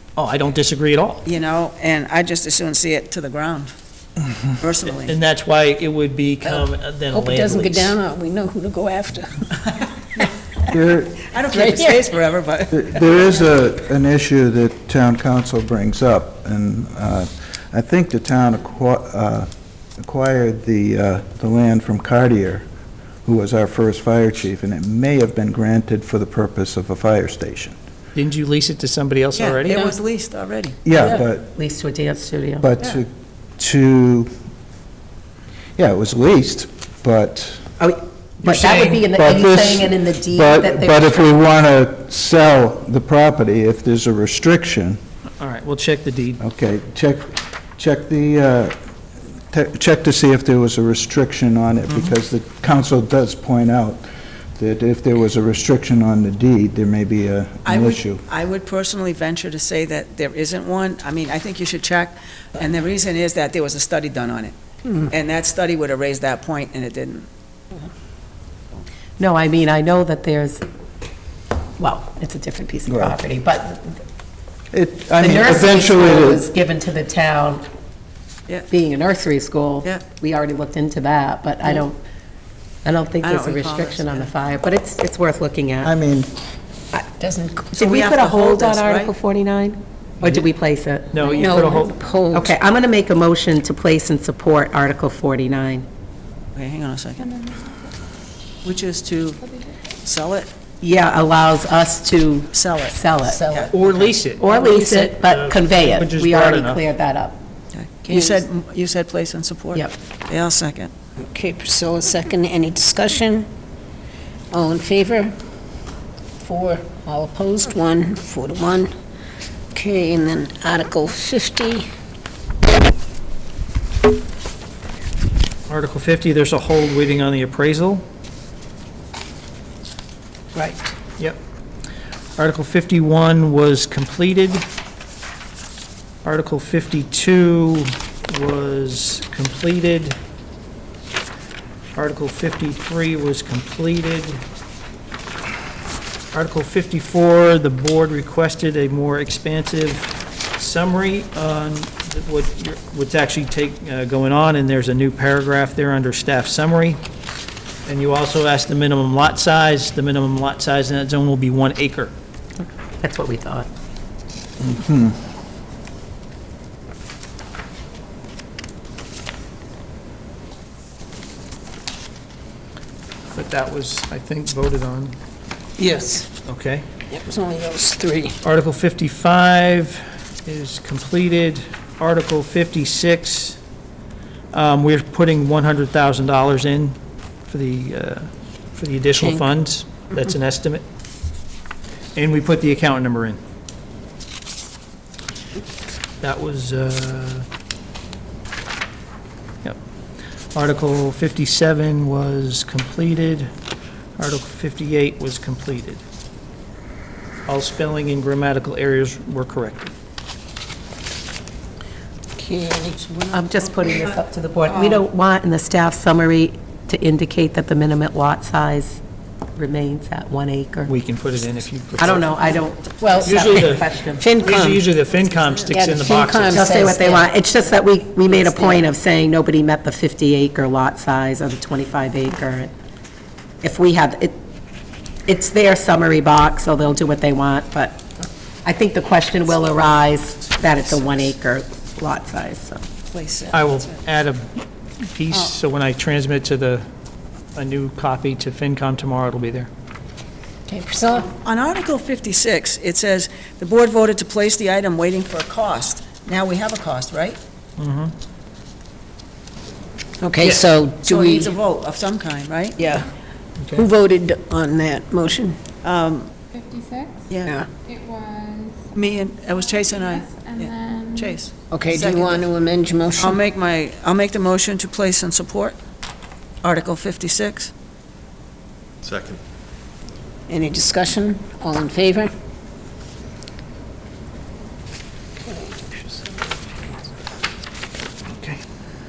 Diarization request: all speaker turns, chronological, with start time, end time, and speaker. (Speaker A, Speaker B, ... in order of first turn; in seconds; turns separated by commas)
Speaker A: 0.2-1.2, Speaker B: 1.2-3.8, Speaker B: 4.6-5.2, Speaker A: 5.0-8.0, Speaker C: 7.1-9.5, Speaker B: 9.7-10.3, Speaker D: 10.7-11.2, Speaker B: 11.2-13.3, Speaker D: 12.7-22.7, Speaker D: 23.2-27.8, Speaker A: 28.1-29.9, Speaker B: 29.4-30.8, Speaker D: 30.9-31.4, Speaker E: 30.9-32.7, Speaker D: 32.6-34.3, Speaker D: 35.8-37.7, Speaker E: 37.8-41.3, Speaker A: 38.4-39.0, Speaker D: 38.7-45.0, Speaker A: 45.4-46.4, Speaker D: 46.4-48.7, Speaker D: 49.5-54.1, Speaker A: 51.9-52.1, Speaker D: 54.6-58.2, Speaker B: 57.6-64.6, Speaker B: 65.1-67.3, Speaker E: 69.2-70.6, Speaker E: 71.8-74.0, Speaker D: 72.9-73.2, Speaker D: 74.7-76.5, Speaker E: 75.2-77.7, Speaker E: 78.7-82.0, Speaker E: 82.8-85.9, Speaker B: 83.2-84.3, Speaker D: 85.8-86.3, Speaker E: 86.9-95.9, Speaker B: 87.7-89.1, Speaker A: 91.1-92.5, Speaker C: 91.4-92.5, Speaker B: 96.5-97.3, Speaker F: 97.2-97.8, Speaker B: 98.6-99.4, Speaker F: 99.5-99.8, Speaker B: 100.0-100.5, Speaker E: 100.8-103.7, Speaker B: 102.5-104.0, Speaker A: 103.7-106.8, Speaker E: 104.4-107.4, Speaker B: 107.7-110.9, Speaker C: 108.1-108.4, Speaker C: 111.2-113.5, Speaker C: 114.5-115.4, Speaker C: 116.4-118.9, Speaker C: 119.7-121.9, Speaker A: 125.7-128.0, Speaker A: 132.4-134.7, Speaker A: 136.2-140.2, Speaker A: 142.0-144.4, Speaker A: 146.3-157.0, Speaker A: 157.9-162.1, Speaker E: 163.0-163.7, Speaker D: 164.6-165.1, Speaker A: 173.3-175.2, Speaker C: 175.8-176.3, Speaker A: 176.4-176.8, Speaker C: 177.1-178.4, Speaker A: 178.4-183.6, Speaker A: 184.5-187.0, Speaker A: 187.5-190.8, Speaker C: 189.2-189.4, Speaker A: 192.2-193.4, Speaker A: 196.2-197.5, Speaker A: 200.5-203.5, Speaker A: 204.2-206.0, Speaker A: 207.5-209.9, Speaker C: 212.4-213.1, Speaker B: 213.1-214.1, Speaker E: 213.3-219.0, Speaker B: 214.7-215.0, Speaker E: 219.6-220.9, Speaker A: 220.9-222.6, Speaker E: 222.0-224.3, Speaker A: 223.2-223.9, Speaker C: 224.2-224.8, Speaker A: 224.4-226.9, Speaker B: 225.2-225.7, Speaker C: 225.7-227.3, Speaker E: 226.5-232.7, Speaker C: 228.4-228.8, Speaker E: 233.6-234.4, Speaker E: 235.3-238.1, Speaker E: 238.7-242.8, Speaker B: 243.1-244.0, Speaker A: 243.5-244.5, Speaker A: 245.1-246.8, Speaker A: 247.6-249.7, Speaker C: 250.7-251.3, Speaker B: 251.1-257.4, Speaker A: 257.8-258.1, Speaker C: 260.2-261.5, Speaker B: 260.4-263.0, Speaker C: 262.8-263.1, Speaker A: 263.6-263.9, Speaker C: 263.7-265.6, Speaker B: 265.8-266.3, Speaker F: 266.5-267.3, Speaker B: 267.3-267.6, Speaker C: 267.4-267.7, Speaker F: 267.8-268.9, Speaker B: 268.9-272.5, Speaker F: 269.7-271.4, Speaker C: 271.7-273.4, Speaker B: 273.2-275.8, Speaker B: 276.6-277.7, Speaker C: 280.5-282.3, Speaker A: 285.5-286.2, Speaker A: 288.4-288.6